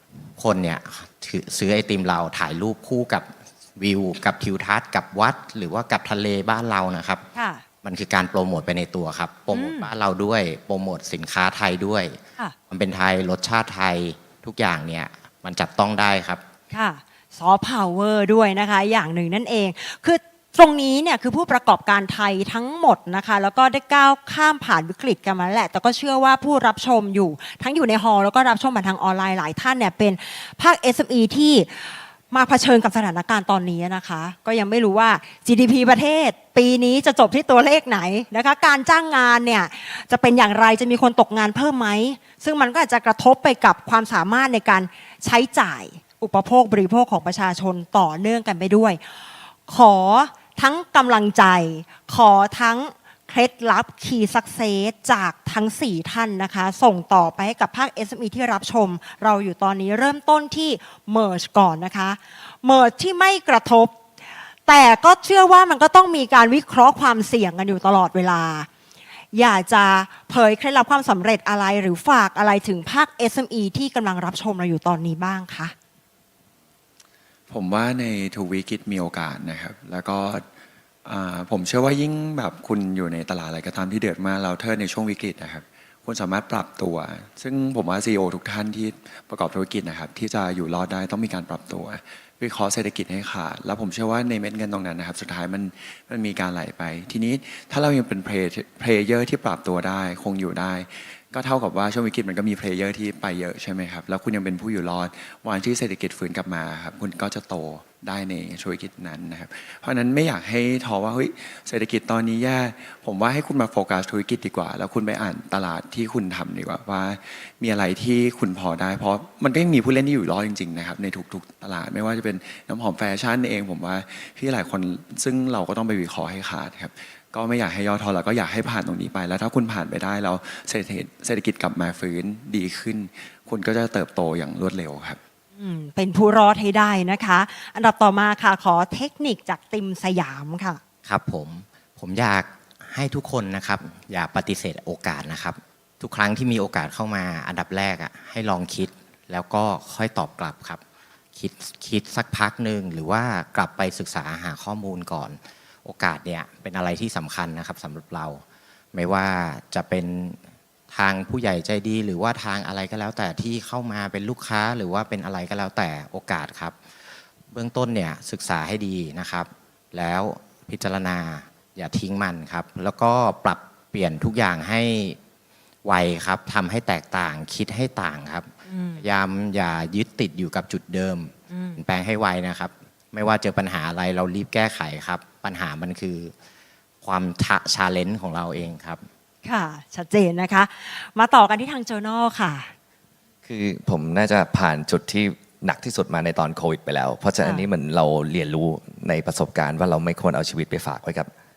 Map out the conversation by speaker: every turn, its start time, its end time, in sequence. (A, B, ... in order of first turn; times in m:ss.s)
0:00.4-0:07.3 A
0:07.4-0:07.6 B
0:07.8-0:12.2 A
0:09.5-0:09.9 B
0:12.7-0:16.4 A
0:16.7-0:49.0 B
0:49.7-1:04.0 B
1:04.7-1:08.7 B
1:09.3-1:15.8 B
1:17.5-1:20.4 C
1:21.0-2:15.2 C
2:15.6-2:20.8 B
2:21.1-2:30.8 A
2:31.4-2:38.4 A
2:38.9-2:40.4 A
2:40.9-2:46.8 A
2:47.5-2:55.2 A
2:55.8-2:58.5 A
2:58.7-2:59.0 B
2:59.0-3:06.3 A
3:01.5-3:01.8 B
3:07.0-3:09.0 A
3:09.4-3:12.7 B
3:13.4-3:21.3 D